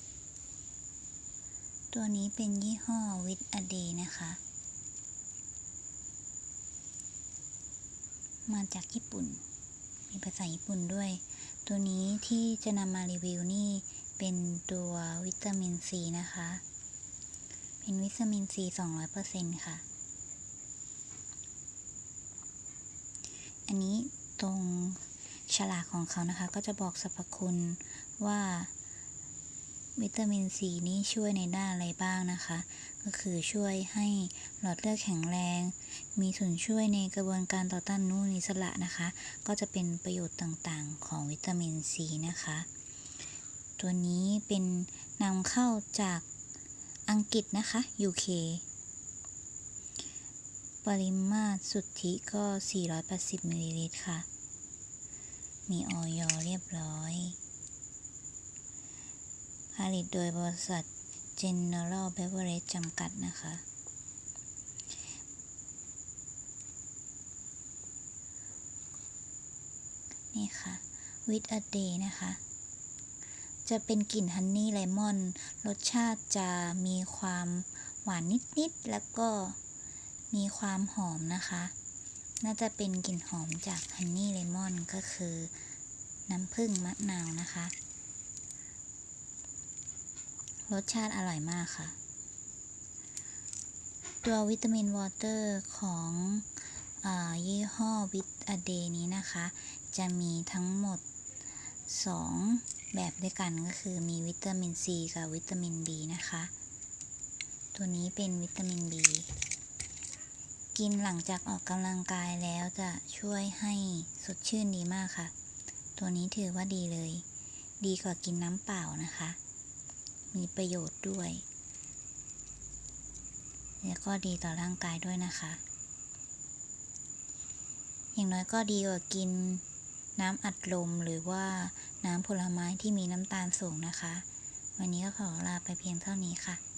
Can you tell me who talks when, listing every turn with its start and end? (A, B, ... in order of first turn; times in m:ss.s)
0:01.9-0:04.4 A
0:08.5-0:09.4 A
0:10.1-0:16.6 A
0:17.8-0:19.8 A
0:23.7-0:28.7 A
0:30.0-0:42.7 A
0:43.8-0:46.2 A
0:47.1-0:48.6 A
0:50.8-0:54.3 A
0:55.7-0:57.4 A
0:59.8-1:03.6 A
1:10.3-1:12.4 A
1:13.6-1:19.6 A
1:20.3-1:21.7 A
1:22.4-1:25.5 A
1:26.3-1:27.7 A
1:30.7-1:32.0 A
1:34.2-1:41.0 A
1:41.9-1:46.5 A
1:47.7-1:49.3 A
1:50.7-1:55.3 A
1:56.0-1:57.2 A
1:57.8-1:59.4 A
2:00.3-2:01.4 A
2:03.8-2:05.6 A
2:08.1-2:09.6 A
2:10.2-2:14.2 A
2:14.8-2:16.6 A